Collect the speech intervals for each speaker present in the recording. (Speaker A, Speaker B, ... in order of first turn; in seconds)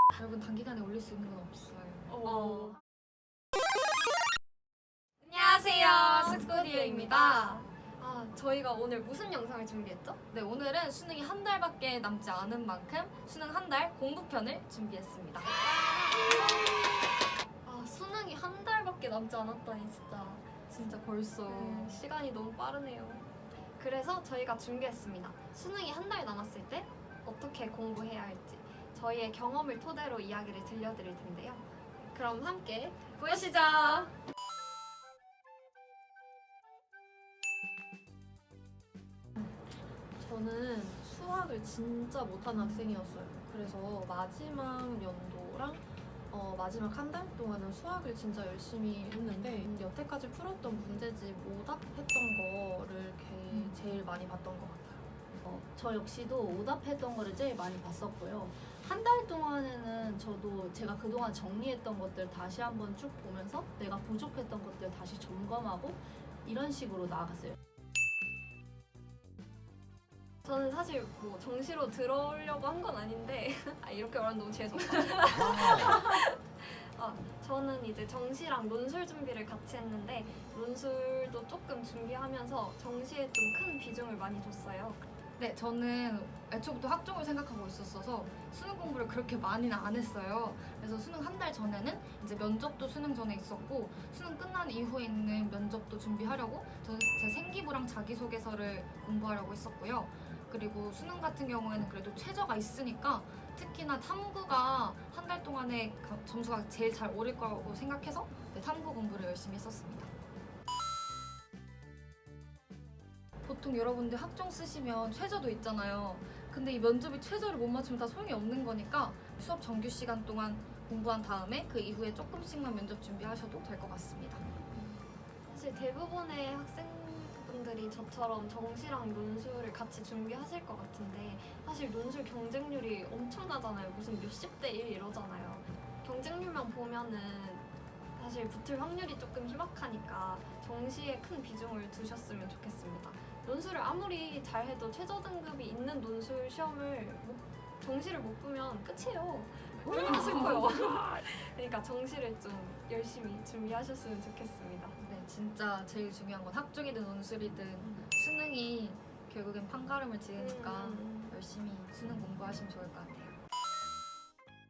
Speaker A: 0.2-2.2, 5.2-7.6, 10.3-15.6, 20.7-22.0, 85.4-110.1, 113.4-124.5, 149.9-150.9, 155.0-163.4
Speaker B: 2.2-2.8, 5.4-10.2, 15.6-17.0, 17.6-20.6, 21.5-34.1, 70.5-85.1, 124.8-155.0, 160.4-161.3
Speaker C: 40.2-55.1
Speaker D: 55.4-67.6